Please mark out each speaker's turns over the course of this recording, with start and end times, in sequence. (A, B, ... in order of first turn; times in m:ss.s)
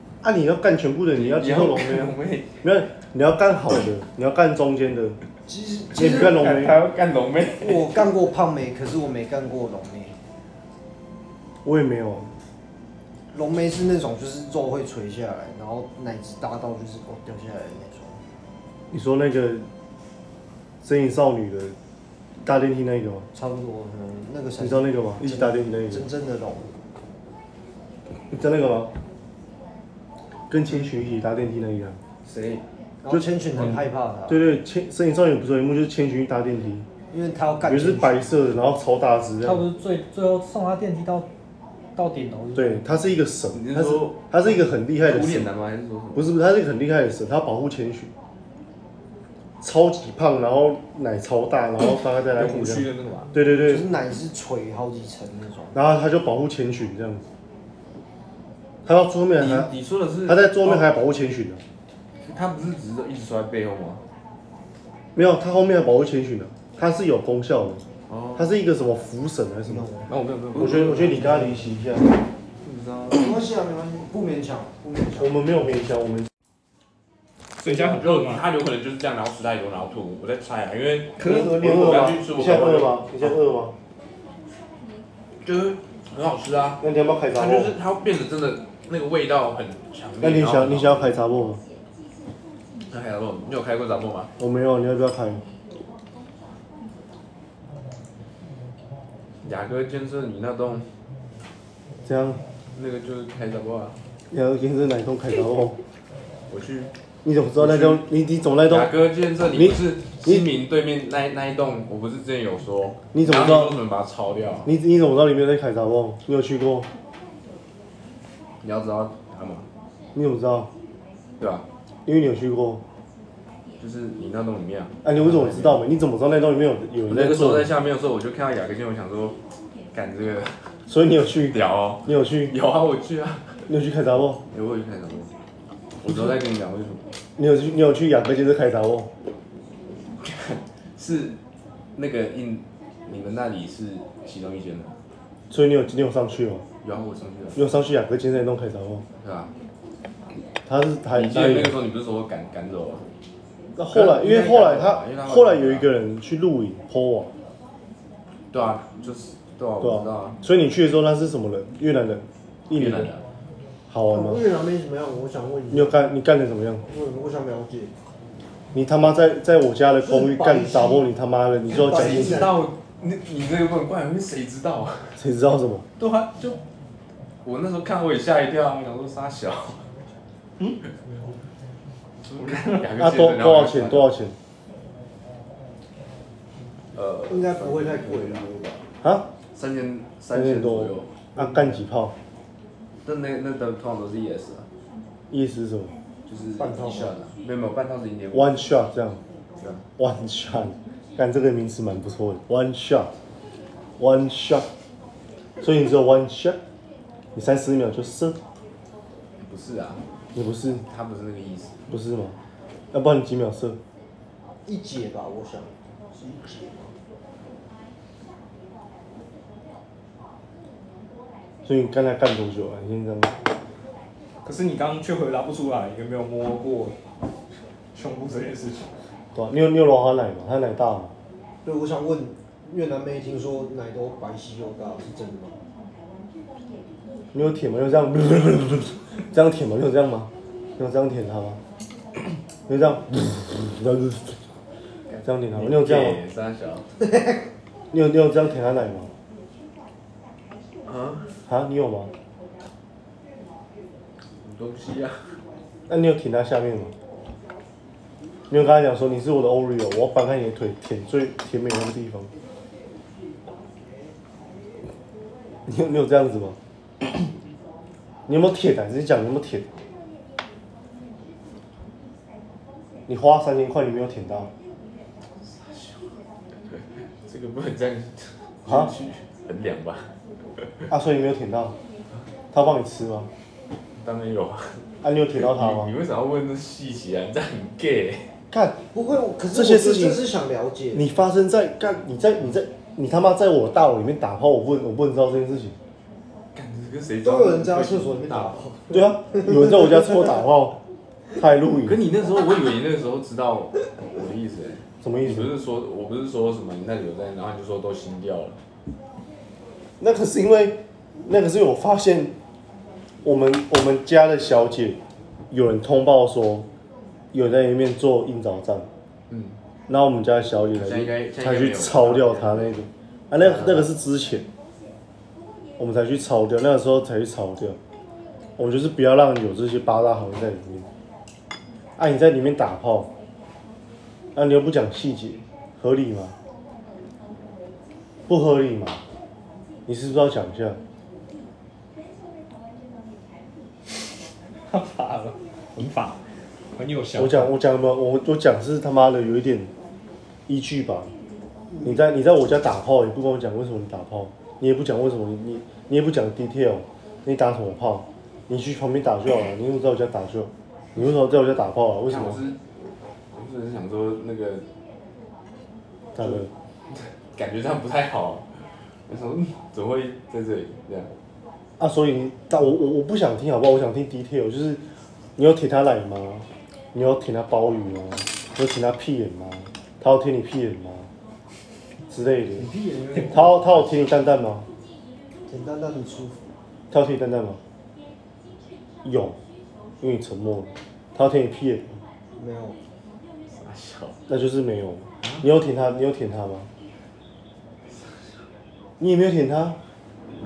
0:00.2-0:05.2 A
0:01.1-0:02.6 B
0:05.5-0:06.4 C
0:05.9-0:08.0 B
0:06.0-0:06.8 A
0:07.6-0:10.2 C
0:11.6-0:12.3 A
0:13.3-0:18.2 C
0:18.9-0:19.7 A
0:20.8-0:21.8 A
0:22.4-0:23.3 A
0:23.3-0:26.7 C
0:24.6-0:26.0 A
0:28.3-0:28.9 A
0:30.5-0:32.0 A
0:32.2-0:32.6 B
0:33.0-0:34.4 C
0:33.1-0:36.9 A
0:37.1-0:38.2 C
0:37.6-0:39.6 A
0:39.4-0:41.3 D
0:42.0-0:42.9 D
0:42.5-0:45.5 A
0:43.5-0:46.3 B
0:46.2-0:48.1 A
0:49.6-0:53.9 A
0:52.4-0:53.3 B
0:53.6-0:55.8 C
0:55.7-0:57.2 A
0:58.9-0:59.7 A
0:59.4-1:00.9 B
1:00.3-1:01.6 A
1:02.2-1:04.0 B
1:05.2-1:07.8 A
1:08.1-1:08.5 B
1:08.4-1:09.9 A
1:09.7-1:10.1 C
1:10.1-1:11.3 B
1:10.6-1:12.1 A
1:12.6-1:13.3 B
1:13.1-1:15.4 C
1:15.2-1:16.3 A
1:17.6-1:18.4 E
1:17.6-1:23.3 B
1:21.2-1:23.8 A
1:25.4-1:26.8 B
1:26.8-1:27.8 A
1:27.3-1:31.1 B
1:30.2-1:31.6 A
1:32.9-1:34.3 B
1:34.4-1:35.4 A
1:39.4-1:40.9 B
1:42.1-1:42.4 A
1:42.8-1:44.0 B
1:44.3-1:45.8 A
1:46.5-1:46.9 B
1:47.2-1:48.9 A
1:47.6-1:48.0 B
1:48.7-1:54.7 B
1:49.5-1:50.5 A
1:53.1-1:53.8 A
1:54.6-1:56.9 A
1:58.6-1:59.7 B
2:00.2-2:00.7 A
2:01.4-2:01.7 B
2:02.1-2:02.8 A
2:03.8-2:05.8 B
2:05.0-2:07.7 A
2:07.1-2:09.4 B
2:09.9-2:10.7 B
2:10.9-2:12.5 A
2:11.4-2:13.6 B
2:13.7-2:14.4 A
2:14.5-2:15.3 B
2:16.0-2:17.0 B
2:17.4-2:19.1 A
2:20.2-2:21.4 B
2:22.0-2:25.0 B
2:25.5-2:26.6 A
2:26.8-2:27.6 B
2:27.6-2:29.0 A
2:29.2-2:29.5 B
2:30.7-2:31.8 A
2:31.1-2:33.0 B
2:33.8-2:37.3 A
2:33.9-2:35.9 B
2:38.5-2:40.4 B
2:39.8-2:43.1 A
2:42.7-2:43.2 B
2:43.9-2:44.4 A
2:44.1-2:46.0 C
2:45.7-2:46.8 A
2:46.9-2:47.9 C
2:48.7-2:52.5 A
2:50.0-2:51.0 C
2:51.7-2:52.6 C
2:51.8-2:55.2 B
2:55.2-2:55.9 A
2:56.0-2:56.6 B
2:56.0-2:56.5 E
2:57.4-2:59.8 B
3:02.3-3:04.1 B
3:02.4-3:02.8 E
3:02.9-3:04.4 A
3:06.9-3:08.8 B
3:07.3-3:08.6 C
3:09.0-3:09.3 A
3:09.5-3:11.2 B
3:10.3-3:12.2 A
3:13.0-3:14.7 B
3:15.3-3:15.9 A
3:16.3-3:18.6 B
3:16.6-3:17.1 C
3:18.3-3:19.2 A
3:20.0-3:23.1 A
3:24.0-3:24.7 A
3:25.6-3:26.6 A
3:27.4-3:28.4 A
3:29.4-3:30.0 B
3:30.4-3:30.8 A
3:30.9-3:31.8 B
3:31.9-3:32.4 A
3:32.9-3:33.8 A
3:34.7-3:36.9 C
3:41.6-3:43.4 A
3:44.4-3:47.0 E
3:47.9-3:48.9 E
3:49.4-3:51.1 A
3:51.6-3:55.6 C
3:57.3-4:01.6 A
4:02.7-4:04.4 A
4:05.1-4:07.0 B
4:05.2-4:06.2 A
4:07.9-4:09.1 A
4:10.9-4:11.3 B
4:11.5-4:12.1 A
4:14.4-4:15.4 B
4:15.9-4:16.9 A
4:18.5-4:22.3 A
4:25.7-4:26.6 A
4:28.3-4:29.8 A
4:33.1-4:34.5 A
4:35.3-4:36.1 B
4:36.7-4:40.7 B
4:40.9-4:41.8 A
4:42.5-4:43.3 A
4:44.0-4:48.3 B
4:45.0-4:45.9 A
4:48.5-4:48.8 A
4:48.9-4:51.1 C
4:49.5-4:50.2 A
4:50.9-4:55.8 A
4:56.6-4:58.6 B
4:57.2-4:59.8 C
4:58.9-5:00.8 A
5:01.4-5:02.0 A
5:01.8-5:08.6 B
5:05.0-5:05.5 A
5:10.0-5:12.4 A
5:13.2-5:16.7 A
5:17.3-5:18.9 A
5:19.3-5:19.6 B
5:19.9-5:24.5 A
5:20.8-5:22.8 B
5:23.4-5:23.9 B
5:25.8-5:27.8 A
5:28.6-5:30.9 A
5:32.0-5:33.1 A
5:34.4-5:36.4 A
5:38.3-5:39.0 A
5:39.9-5:40.8 A
5:44.7-5:46.2 E
5:46.8-5:47.5 E
5:47.2-5:49.7 A
5:50.5-5:51.1 A
5:51.8-6:02.4 A
6:02.1-6:02.6 B
6:03.3-6:04.7 B
6:06.2-6:06.5 A
6:07.3-6:08.5 B
6:09.1-6:11.1 B
6:11.8-6:14.8 A
6:15.4-6:21.1 A
6:22.1-6:22.7 A
6:22.6-6:23.7 C
6:23.3-6:24.7 A
6:25.5-6:26.4 C
6:26.9-6:27.6 A
6:29.0-6:29.4 A
6:30.0-6:32.0 A
6:32.4-6:32.8 C
6:33.5-6:34.2 B
6:34.3-6:36.7 A
6:39.0-6:39.8 A